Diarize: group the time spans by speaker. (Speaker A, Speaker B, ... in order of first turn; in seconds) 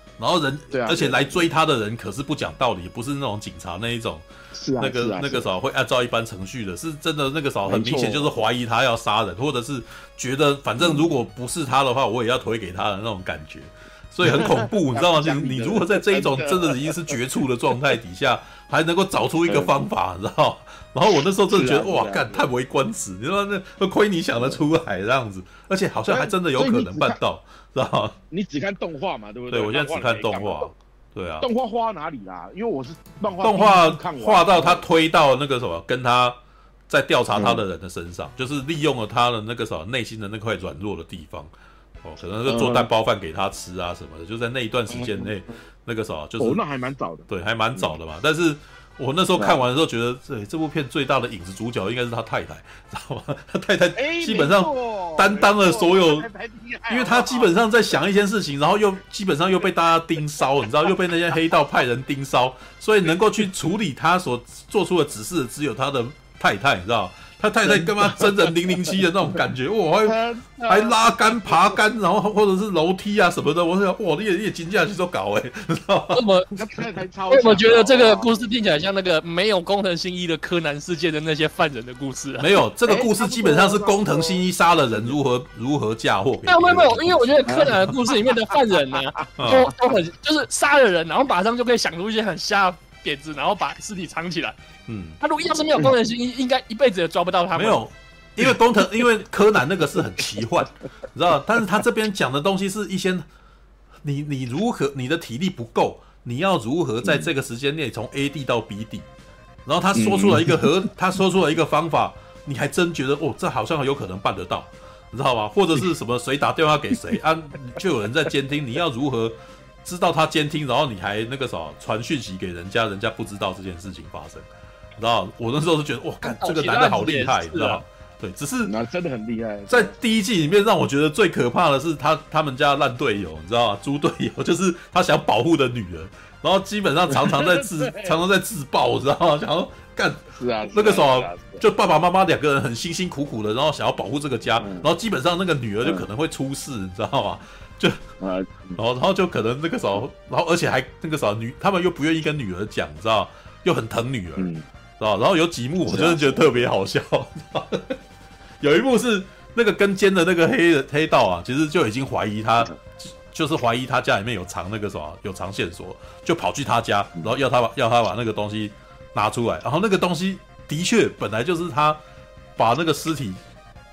Speaker A: 0.2-4.2, 4.8-28.2, 29.5-31.5, 33.4-36.4, 36.9-41.5, 42.0-46.6, 47.3-56.3, 56.9-70.2, 70.7-76.3, 82.4-87.4, 89.4-89.7, 94.9-95.2, 97.5-103.2, 104.0-109.1, 109.7-124.5, 125.0-128.7, 129.7-148.1, 148.8-158.0, 158.6-172.0, 172.6-173.4
Speaker B: 0.7-1.5, 4.5-5.5, 7.7-8.3, 10.8-11.1, 14.2-17.2, 19.4-19.7, 21.5-22.5, 24.4-24.6, 26.1-27.2, 28.3-30.7, 31.4-34.8, 37.3-37.6, 42.5-42.9, 44.9-45.4, 46.4-48.0, 49.3-49.6, 54.0-57.6, 67.7-68.3, 70.0-71.7, 76.5-78.4, 82.9-85.2, 87.5-87.8, 107.0-107.3, 109.9-110.7, 128.6-129.9, 137.3-138.1, 140.3-141.6, 144.6-144.9, 148.2-148.8, 154.4-154.6, 155.8-156.6
Speaker C: 76.1-76.5, 77.3-82.8, 86.4-94.6, 95.2-97.8, 126.2-127.8